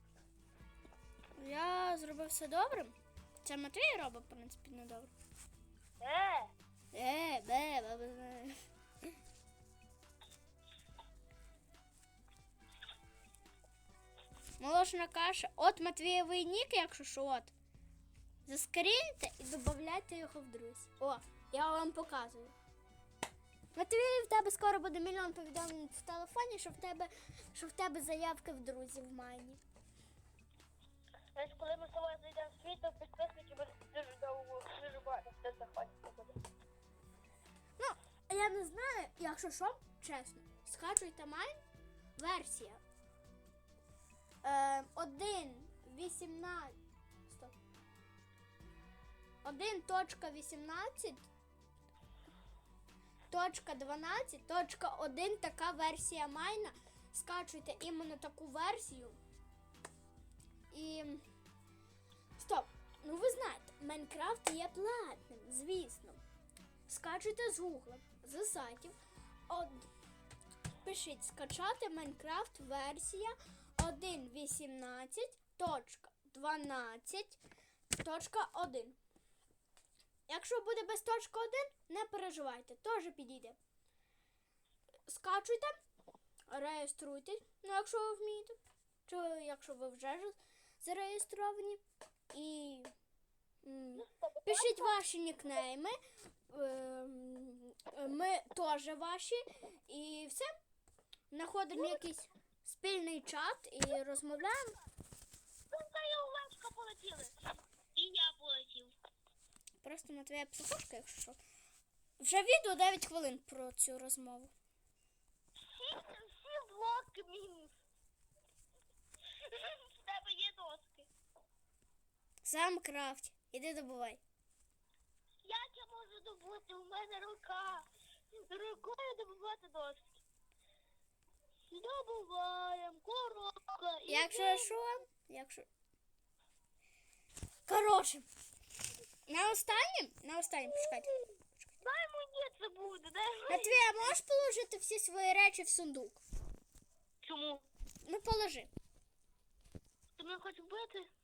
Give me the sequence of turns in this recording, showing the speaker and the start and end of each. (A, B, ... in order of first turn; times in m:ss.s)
0:01.4-0:05.1 A
0:06.0-0:06.5 B
0:06.9-0:08.6 A
0:14.6-0:17.5 A
0:18.5-0:22.6 A
0:23.7-0:29.6 A
0:31.4-0:36.4 B
0:37.8-0:41.6 A
0:42.2-0:42.8 A
0:44.4-0:46.8 A
0:47.3-0:47.5 A
0:49.4-0:51.3 A
0:53.3-0:59.2 A
1:00.7-1:01.2 A
1:02.4-1:06.2 A
1:06.9-1:09.0 A
1:09.5-1:09.9 A
1:10.8-1:17.4 A
1:18.0-1:19.0 A
1:20.3-1:23.6 A
1:25.1-1:25.7 A
1:26.5-1:31.8 A
1:32.3-1:32.9 A
1:33.6-1:36.0 A
1:34.0-1:35.6 B
1:36.5-1:40.5 A
1:41.3-1:44.8 A
1:41.7-1:42.0 B
1:45.7-1:47.4 B
1:48.0-1:48.9 B
1:49.8-1:51.4 A
1:52.2-1:54.5 A
1:55.7-1:57.8 B
1:59.3-2:01.1 B
2:02.4-2:04.2 A
2:05.4-2:07.9 B
2:08.5-2:10.2 B
2:11.7-2:14.8 B
2:14.1-2:15.7 A
2:17.7-2:18.3 A
2:19.3-2:21.7 A
2:20.9-2:21.3 B
2:21.8-2:23.9 B
2:23.5-2:26.2 A
2:27.2-2:27.6 B
2:28.0-2:28.7 A
2:30.2-2:31.1 B